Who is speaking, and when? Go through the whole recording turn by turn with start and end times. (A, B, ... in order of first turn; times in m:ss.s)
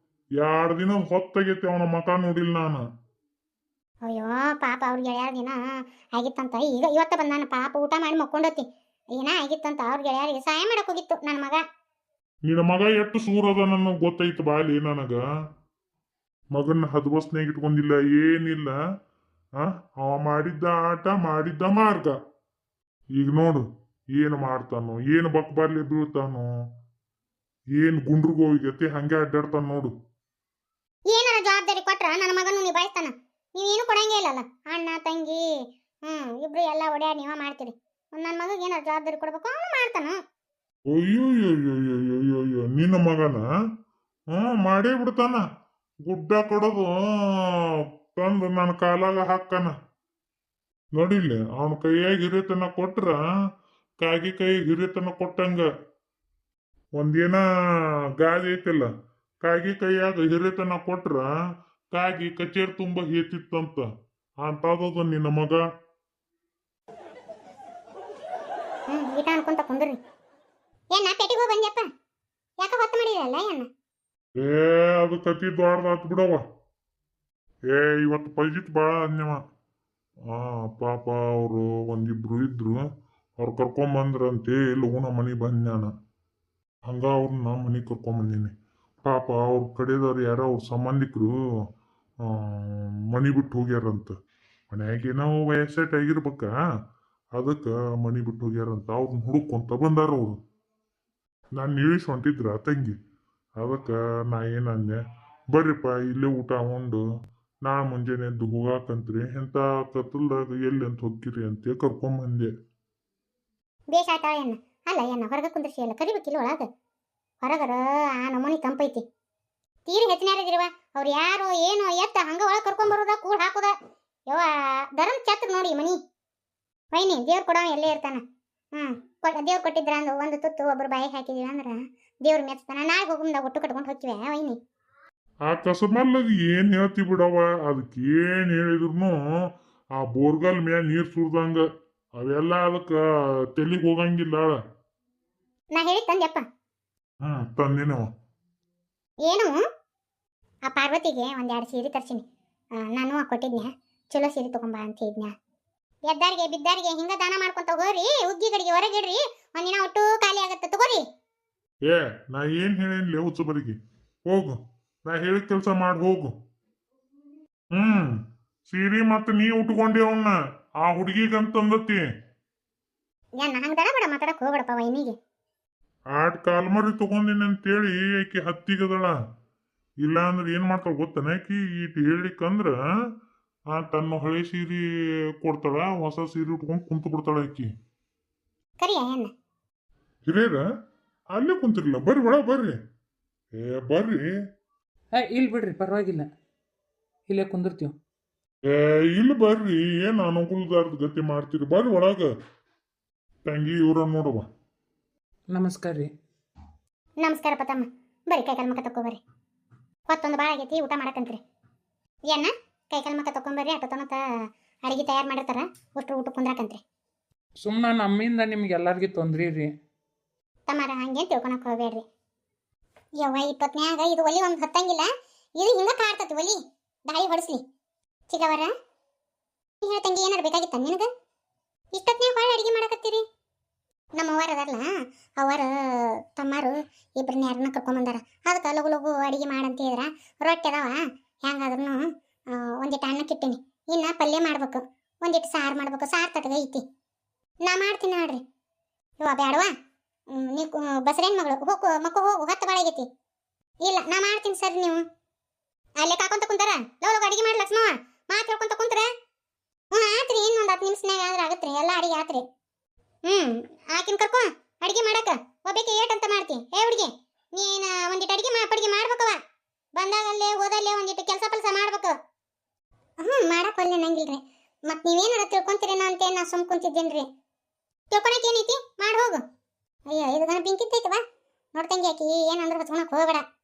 0:00.4-0:02.8 A
0:04.0-0:11.6 B
0:12.4-0:15.2 A
0:16.5-0:18.8 A
0:19.6-0:22.2 A
0:23.2-0:26.5 A
0:27.8-0:29.9 A
0:31.1-0:35.4 B
0:36.0-0:40.2 B
0:40.9-0:43.4 A
0:44.3-0:45.4 A
0:46.0-0:49.7 A
0:50.9-0:53.2 A
0:54.0-0:55.7 A
0:57.0-0:58.9 A
0:59.4-1:01.3 A
1:01.9-1:03.9 A
1:04.4-1:05.6 A
1:08.9-1:10.0 B
1:10.9-1:11.9 B
1:12.6-1:13.7 B
1:14.4-1:16.4 A
1:17.7-1:19.4 A
1:20.3-1:22.9 A
1:23.4-1:25.9 A
1:26.8-1:28.5 A
1:29.0-1:31.7 A
1:32.2-1:34.2 A
1:34.7-1:36.6 A
1:37.3-1:40.4 A
1:41.6-1:43.0 A
1:43.6-1:45.0 A
1:45.5-1:47.0 A
1:47.6-1:52.5 A
1:53.9-1:56.7 B
1:57.4-1:59.0 B
1:59.9-2:03.7 B
2:04.3-2:06.0 B
2:06.9-2:08.2 B
2:08.7-2:14.6 B
2:15.4-2:19.2 A
2:20.0-2:21.6 A
2:22.2-2:23.0 A
2:23.5-2:24.6 A
2:25.7-2:26.4 B
2:27.2-2:28.1 A
2:29.2-2:29.6 B
2:30.7-2:35.3 B
2:36.1-2:41.0 B
2:41.8-2:46.4 A
2:47.7-2:52.0 A
2:53.4-2:55.2 B
2:56.1-2:59.2 A
3:00.0-3:02.8 A
3:03.7-3:04.9 A
3:05.4-3:07.7 A
3:08.8-3:09.3 B
3:10.3-3:10.6 A
3:11.3-3:12.8 A
3:13.5-3:14.2 A
3:15.1-3:16.3 C
3:17.3-3:18.0 C
3:18.6-3:22.3 A
3:23.4-3:24.5 A
3:25.5-3:26.1 C
3:27.2-3:29.2 B
3:30.1-3:31.4 B
3:32.3-3:34.2 B
3:34.8-3:36.8 B
3:37.6-3:39.7 C
3:40.7-3:42.0 B
3:43.2-3:47.6 B
3:48.3-3:48.7 B
3:49.8-3:51.1 B
3:51.9-3:53.2 B
3:54.2-3:54.9 B
3:55.4-4:06.8 B
4:07.6-4:08.4 B
4:09.2-4:09.7 B
4:10.3-4:13.1 B
4:13.8-4:15.0 B
4:16.0-4:19.1 B
4:19.9-4:22.4 B
4:23.3-4:29.4 B
4:30.0-4:32.1 B
4:33.2-4:37.3 B
4:38.1-4:39.4 B
4:40.1-4:41.2 B
4:41.7-4:43.4 B